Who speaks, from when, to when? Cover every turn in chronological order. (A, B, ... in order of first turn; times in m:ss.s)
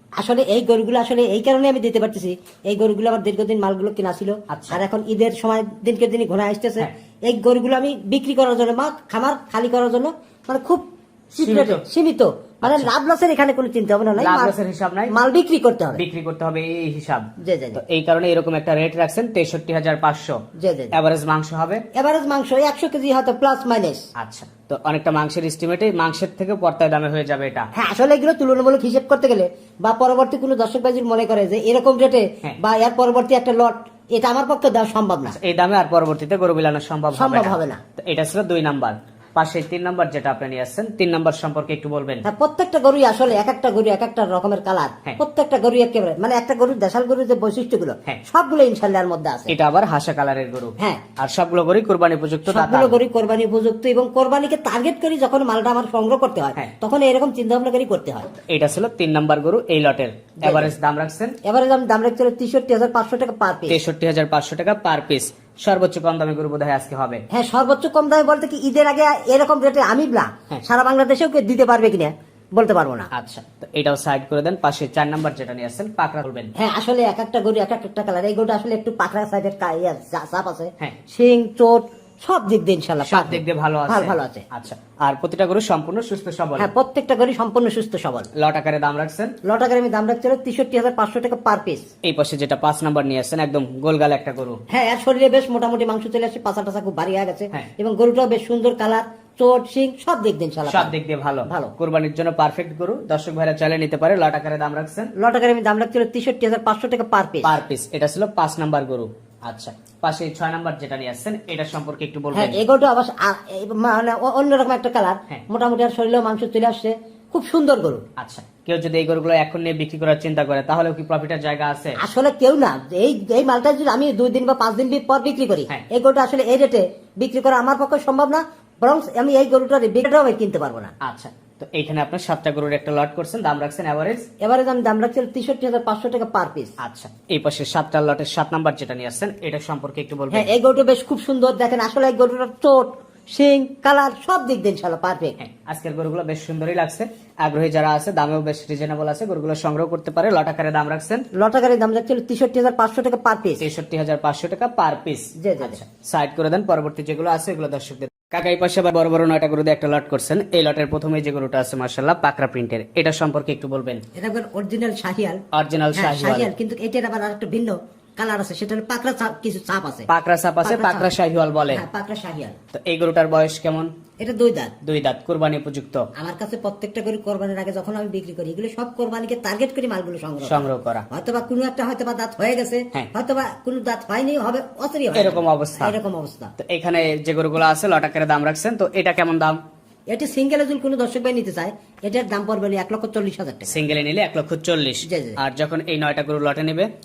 0:00.2-0:10.8 A
0:04.5-0:04.8 B
0:11.4-0:11.8 B
0:11.4-0:14.5 A
0:12.6-0:12.9 B
0:14.2-0:15.2 B
0:15.1-0:16.0 A
0:15.9-0:20.4 B
0:17.4-0:17.8 A
0:20.6-0:20.9 A
0:20.9-0:21.8 B
0:21.9-0:24.0 A
0:24.2-0:27.7 B
0:27.7-0:35.4 A
0:35.3-0:42.2 B
0:37.1-0:37.8 A
0:42.2-0:49.5 A
0:49.5-0:53.0 B
0:52.4-0:58.3 A
0:58.3-1:01.4 B
1:00.4-1:00.7 A
1:01.4-1:03.8 A
1:03.7-1:07.2 B
1:07.3-1:13.1 A
1:13.1-1:16.5 B
1:16.6-1:24.4 A
1:23.0-1:26.7 B
1:26.6-1:28.3 A
1:28.3-1:29.3 B
1:29.4-1:31.8 A
1:32.0-1:34.6 B
1:34.7-1:40.9 A
1:40.6-1:45.1 B
1:41.5-1:41.7 A
1:45.2-1:47.5 A
1:47.4-1:52.6 B
1:52.3-1:58.0 A
1:58.2-2:02.0 B
2:02.0-2:10.9 A
2:11.0-2:14.3 B
2:14.4-2:16.8 A
2:16.8-2:20.5 B
2:20.3-2:25.4 A
2:25.4-2:31.2 B
2:31.3-2:33.6 A
2:33.6-2:44.0 B
2:35.4-2:35.8 A
2:44.1-2:45.4 A
2:45.5-2:46.5 B
2:45.9-2:50.1 A
2:50.1-2:51.8 B
2:50.6-2:51.1 A
2:51.7-2:52.6 A
2:52.7-2:53.9 B
2:54.2-2:54.7 A
2:54.8-2:56.0 B
2:56.2-3:06.5 A
3:00.4-3:01.0 B
3:05.1-3:05.9 B
3:06.6-3:09.6 B
3:10.1-3:13.8 A
3:13.7-3:16.9 B
3:15.0-3:15.4 A